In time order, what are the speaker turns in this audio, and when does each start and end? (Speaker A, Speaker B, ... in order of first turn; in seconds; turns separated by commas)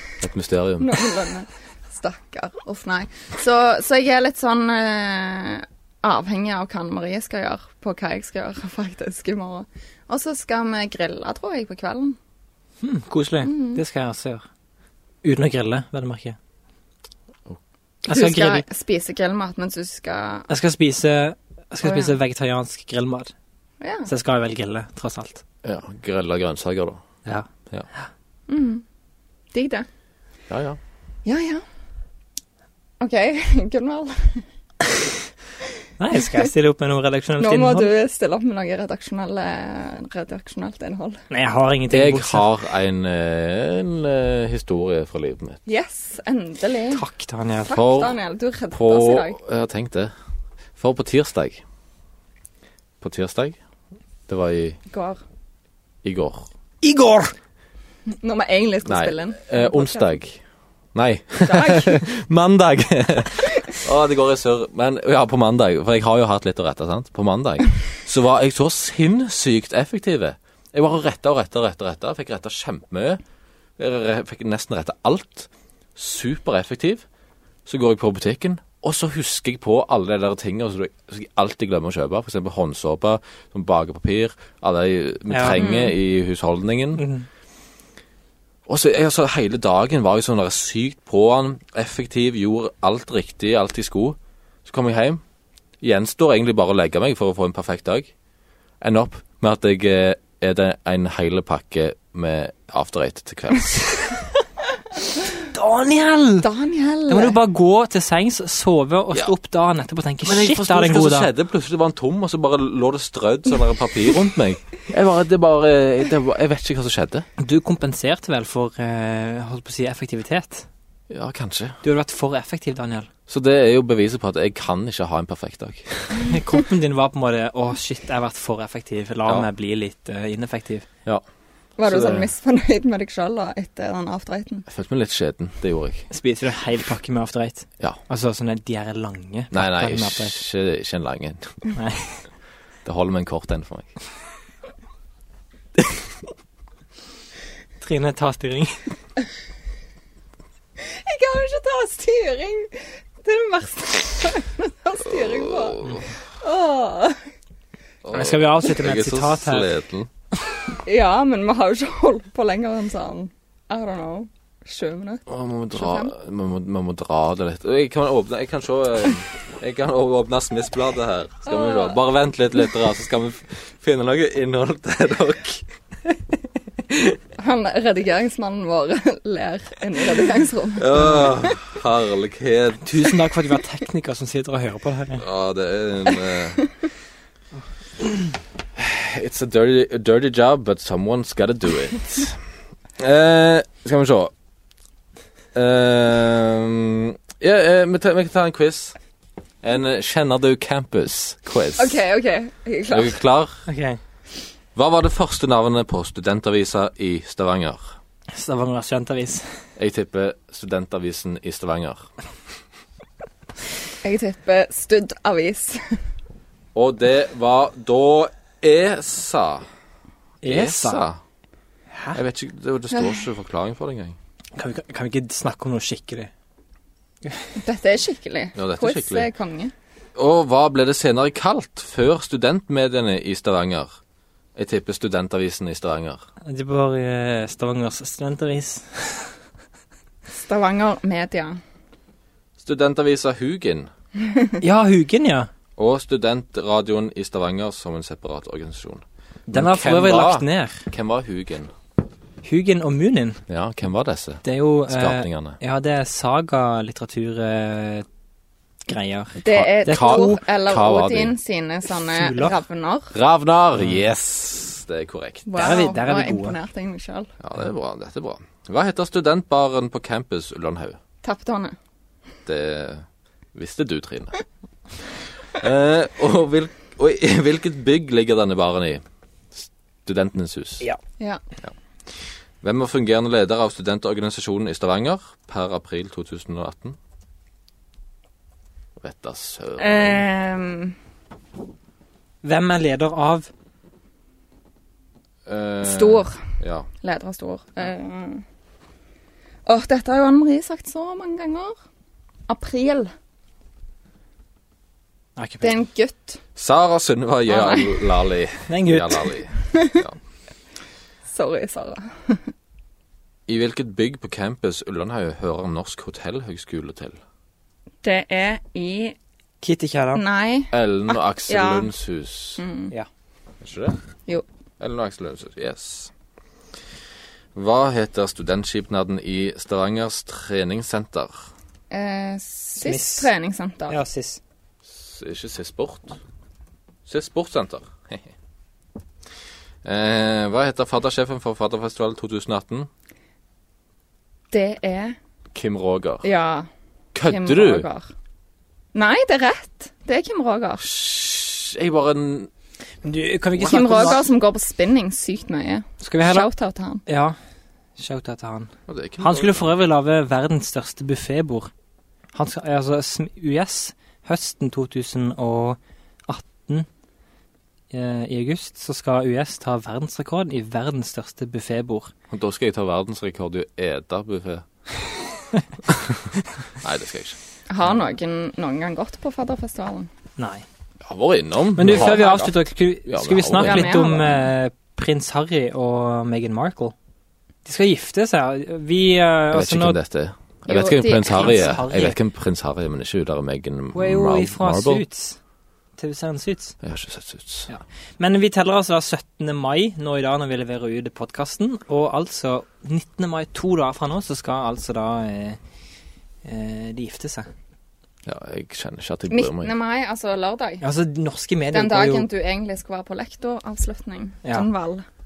Speaker A: 0.2-1.1, Speaker B: 0.8-12.2, Speaker C: 12.8-14.4, Speaker B: 13.4-13.8, Speaker C: 15.2-16.4, Speaker B: 18.1-20.5, Speaker C: 18.1-18.6, Speaker C: 20.5-23.3, Speaker B: 21.8-22.2, Speaker B: 23.8-24.1, Speaker C: 24.1-25.4, Speaker A: 25.6-27.0, Speaker B: 28.5-28.9, Speaker B: 29.5-29.9, Speaker A: 30.5-30.8, Speaker B: 31.2-31.6, Speaker B: 33.0-34.5, Speaker C: 36.0-37.9, Speaker B: 36.2-36.5, Speaker B: 37.4-41.2, Speaker C: 41.3-42.5, Speaker A: 41.9-45.6, Speaker B: 45.7-47.0, Speaker C: 46.9-47.8, Speaker B: 47.6-49.4, Speaker A: 47.7-48.2, Speaker A: 48.7-50.1, Speaker A: 50.8-51.6, Speaker A: 53.0-53.6, Speaker A: 54.3-54.8, Speaker B: 54.9-55.2, Speaker A: 56.0-56.5, Speaker C: 56.8-57.3, Speaker B: 58.1-60.1, Speaker A: 58.9-60.4, Speaker A: 61.0-73.2, Speaker B: 61.4-62.0, Speaker A: 73.8-77.0, Speaker A: 77.7-87.0, Speaker C: 85.3-85.7, Speaker B: 85.5-85.9, Speaker C: 87.0-87.3, Speaker A: 88.7-95.2, Speaker A: 95.8-98.1, Speaker A: 98.8-104.1, Speaker C: 105.3-106.5, Speaker B: 106.4-107.4, Speaker C: 107.1-111.3, Speaker A: 110.2-117.3, Speaker C: 117.4-120.7, Speaker A: 121.1-121.8, Speaker C: 121.8-123.1, Speaker A: 123.3-126.3, Speaker C: 126.2-130.9, Speaker B: 131.8-134.7, Speaker A: 131.8-132.3, Speaker A: 134.7-136.1, Speaker C: 136.1-140.4, Speaker A: 139.5-141.6, Speaker C: 141.7-142.3, Speaker A: 142.8-143.9, Speaker C: 147.8-149.0, Speaker B: 150.8-157.2, Speaker A: 155.5-156.1, Speaker A: 158.1-160.1, Speaker C: 158.1-159.7, Speaker B: 160.8-165.2, Speaker A: 165.3-175.7, Speaker B: 165.7-166.1, Speaker B: 171.5-172.0, Speaker B: 177.4-181.2, Speaker A: 180.8-183.1, Speaker C: 182.8-185.2, Speaker A: 185.2-186.7, Speaker A: 188.8-192.4, Speaker A: 193.0-194.3, Speaker A: 195.5-199.0, Speaker A: 199.6-202.0, Speaker B: 201.8-203.2, Speaker A: 202.9-203.6, Speaker C: 203.7-204.0, Speaker A: 204.8-208.0, Speaker C: 208.3-209.7, Speaker A: 209.8-212.1, Speaker B: 214.0-216.0, Speaker A: 216.8-219.7, Speaker C: 220.4-221.1, Speaker A: 220.4-221.2, Speaker A: 222.1-224.2, Speaker B: 222.9-223.3, Speaker C: 224.6-226.3, Speaker B: 227.6-229.7, Speaker A: 228.6-229.3, Speaker A: 230.2-234.0, Speaker A: 234.6-236.2, Speaker C: 236.4-239.4, Speaker B: 240.3-241.6, Speaker A: 242.6-243.9, Speaker B: 244.2-244.6, Speaker C: 244.6-245.5, Speaker A: 245.8-251.7, Speaker C: 249.5-250.9, Speaker C: 252.4-253.4, Speaker A: 253.5-255.6, Speaker C: 254.4-258.1, Speaker C: 258.9-260.4, Speaker B: 259.4-263.1, Speaker A: 259.4-261.4, Speaker C: 262.1-262.6, Speaker A: 263.1-265.5, Speaker B: 265.5-267.3, Speaker C: 265.6-266.6, Speaker A: 267.4-271.0, Speaker B: 271.2-271.8, Speaker A: 272.5-274.4, Speaker A: 275.5-279.0, Speaker A: 279.6-280.9, Speaker A: 282.6-287.0, Speaker A: 289.0-290.3, Speaker B: 289.8-291.0, Speaker C: 292.4-293.5, Speaker A: 295.5-296.9, Speaker B: 295.8-298.4, Speaker B: 299.7-301.8, Speaker B: 302.5-303.1, Speaker C: 305.4-305.8, Speaker B: 305.6-306.4, Speaker A: 306.6-310.2, Speaker B: 307.5-307.9, Speaker C: 308.7-309.4, Speaker B: 309.7-310.0, Speaker B: 311.3-312.5, Speaker A: 313.5-317.2, Speaker B: 318.0-319.2, Speaker C: 319.6-320.2, Speaker B: 320.1-321.9, Speaker A: 320.7-322.6, Speaker B: 322.6-322.9, Speaker A: 323.6-324.0, Speaker A: 324.8-326.1, Speaker A: 327.6-331.5, Speaker B: 331.9-334.0, Speaker C: 332.8-333.3, Speaker C: 333.9-334.4, Speaker A: 334.9-336.2, Speaker A: 337.1-338.3, Speaker A: 339.8-342.9, Speaker B: 344.5-345.2, Speaker A: 345.5-346.3, Speaker B: 346.2-346.7, Speaker A: 347.1-347.9, Speaker B: 347.3-348.1, Speaker B: 348.9-350.8, Speaker A: 350.8-352.5, Speaker C: 353.0-354.2, Speaker B: 353.6-357.0, Speaker C: 356.0-356.5, Speaker C: 357.1-357.4, Speaker C: 358.0-361.7, Speaker A: 358.9-359.7, Speaker C: 362.3-366.9, Speaker C: 367.9-372.1, Speaker A: 372.3-374.7, Speaker A: 375.9-377.4, Speaker B: 377.7-380.1, Speaker C: 380.4-380.7, Speaker A: 381.1-384.0, Speaker C: 381.8-386.9, Speaker B: 383.6-384.5, Speaker C: 387.6-390.0, Speaker A: 389.5-395.1, Speaker B: 390.7-391.8, Speaker C: 391.3-392.2, Speaker C: 393.9-395.4, Speaker C: 396.0-396.8, Speaker A: 396.8-397.7, Speaker C: 397.7-405.6, Speaker C: 406.4-407.5, Speaker A: 408.3-409.7, Speaker B: 409.3-410.8, Speaker C: 410.8-412.3, Speaker B: 411.7-415.1